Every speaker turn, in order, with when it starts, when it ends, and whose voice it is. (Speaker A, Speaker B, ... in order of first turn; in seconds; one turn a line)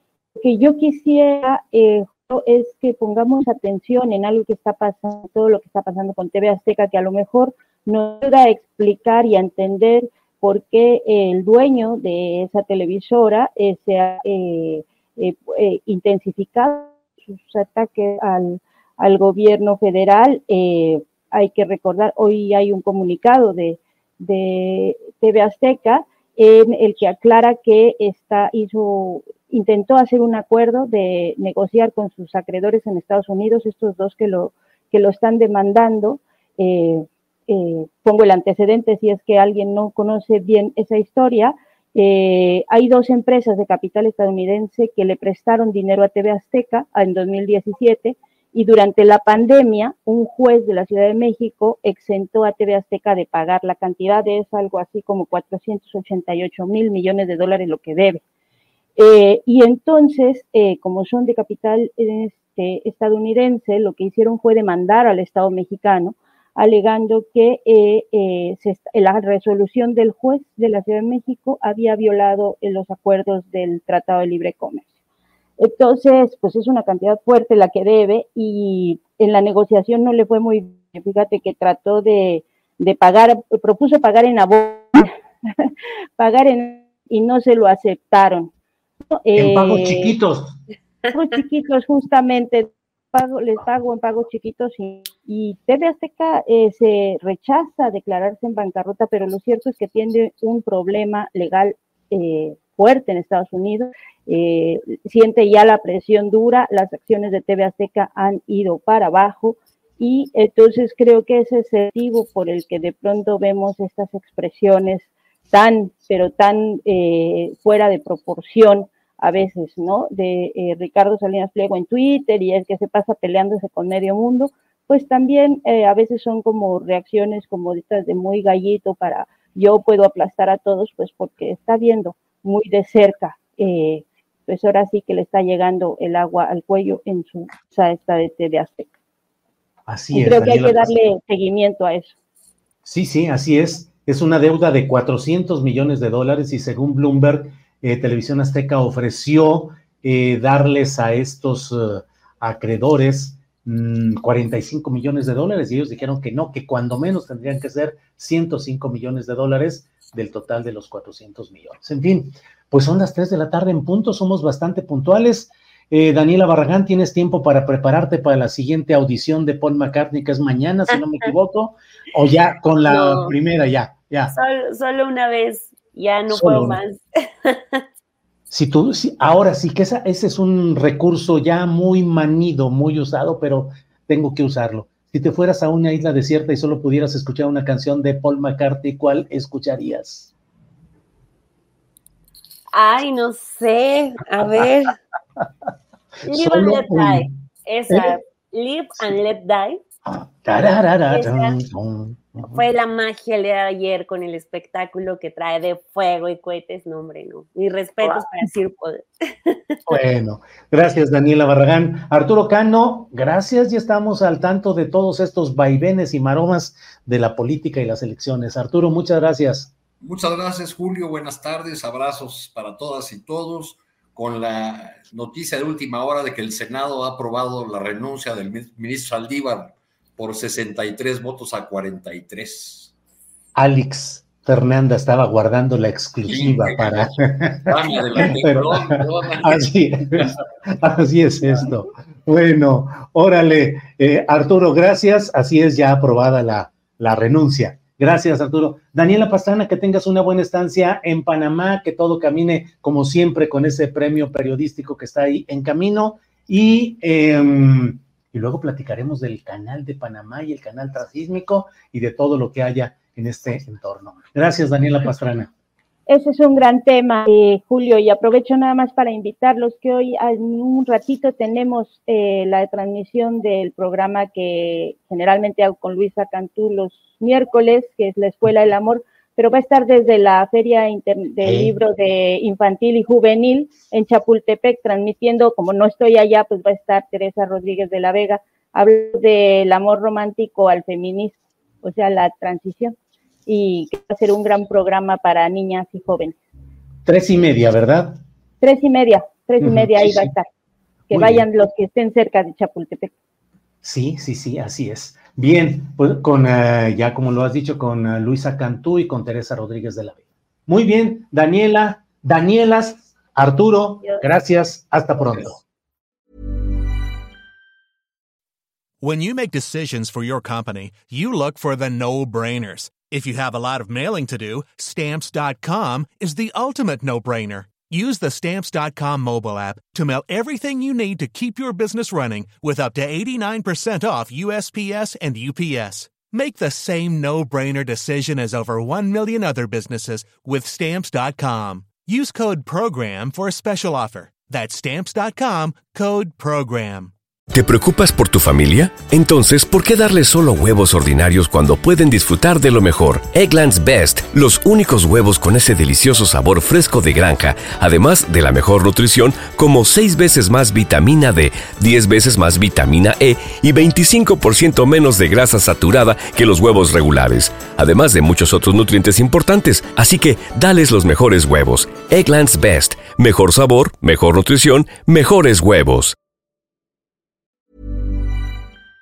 Speaker A: 0.3-58.2
Speaker A: 59.0-74.9
Speaker A: 75.6-88.5
Speaker A: 89.1-90.1
Speaker B: 89.3-90.6
Speaker A: 91.1-138.9
Speaker B: 139.9-140.9
Speaker A: 140.1-142.1
Speaker B: 142.8-174.3
Speaker C: 172.8-173.3
Speaker C: 174.3-177.9
Speaker B: 176.3-176.8
Speaker B: 178.5-190.3
Speaker C: 192.7-195.0
Speaker B: 196.2-197.3
Speaker C: 196.2-199.8
Speaker B: 197.9-198.2
Speaker B: 200.1-202.6
Speaker C: 201.1-201.6
Speaker C: 202.5-209.8
Speaker B: 209.9-219.7
Speaker D: 220.0-232.9
Speaker B: 233.6-265.5
Speaker D: 236.3-240.4
Speaker A: 266.1-296.4
Speaker B: 281.4-281.7
Speaker B: 297.1-298.2
Speaker A: 298.6-300.5
Speaker B: 299.6-300.3
Speaker A: 301.1-303.1
Speaker B: 301.1-301.5
Speaker B: 303.8-315.6
Speaker E: 319.0-347.1
Speaker F: 347.5-376.1